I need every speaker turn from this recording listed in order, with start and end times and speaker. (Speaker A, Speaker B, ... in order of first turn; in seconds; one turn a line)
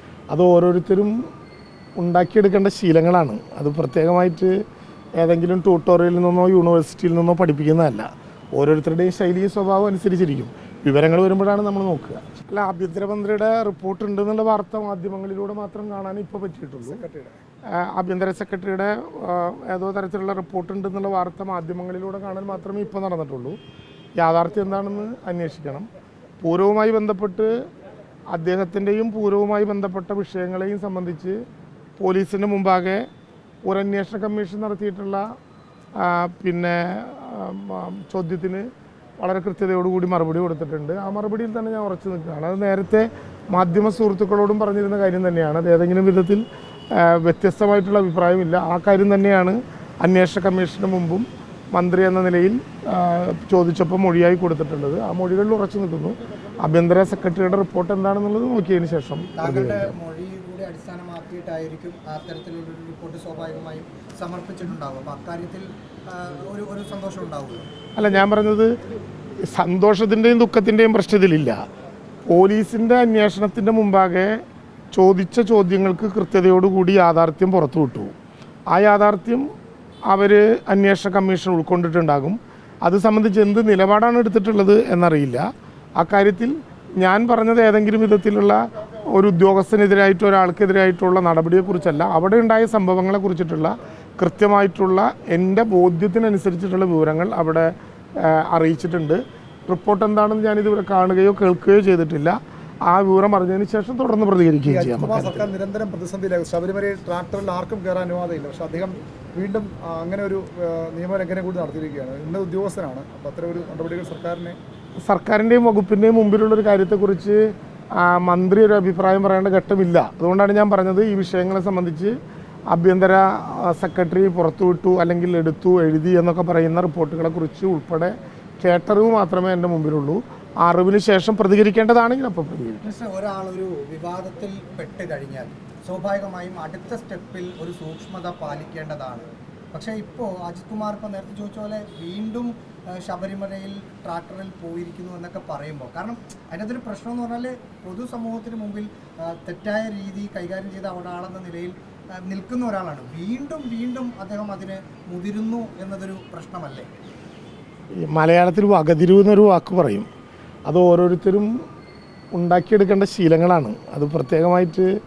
Speaker A: 0.3-1.3
Speaker A: 2.0-4.5
Speaker A: 5.2-17.1
Speaker B: 16.8-17.4
Speaker A: 17.8-23.6
Speaker A: 24.2-25.9
Speaker A: 26.4-27.5
Speaker A: 28.3-31.4
Speaker A: 32.0-33.1
Speaker A: 33.6-35.2
Speaker A: 36.0-38.7
Speaker A: 39.2-60.0
Speaker C: 59.4-67.7
Speaker A: 68.0-68.7
Speaker A: 69.4-71.6
Speaker A: 72.3-74.4
Speaker A: 74.9-78.1
Speaker A: 78.7-79.5
Speaker A: 80.1-85.5
Speaker A: 86.0-105.5
Speaker B: 104.6-114.6
Speaker A: 115.0-122.2
Speaker A: 122.7-132.9
Speaker C: 132.8-156.9
Speaker A: 158.0-160.1
Speaker A: 160.7-161.6
Speaker A: 162.3-164.9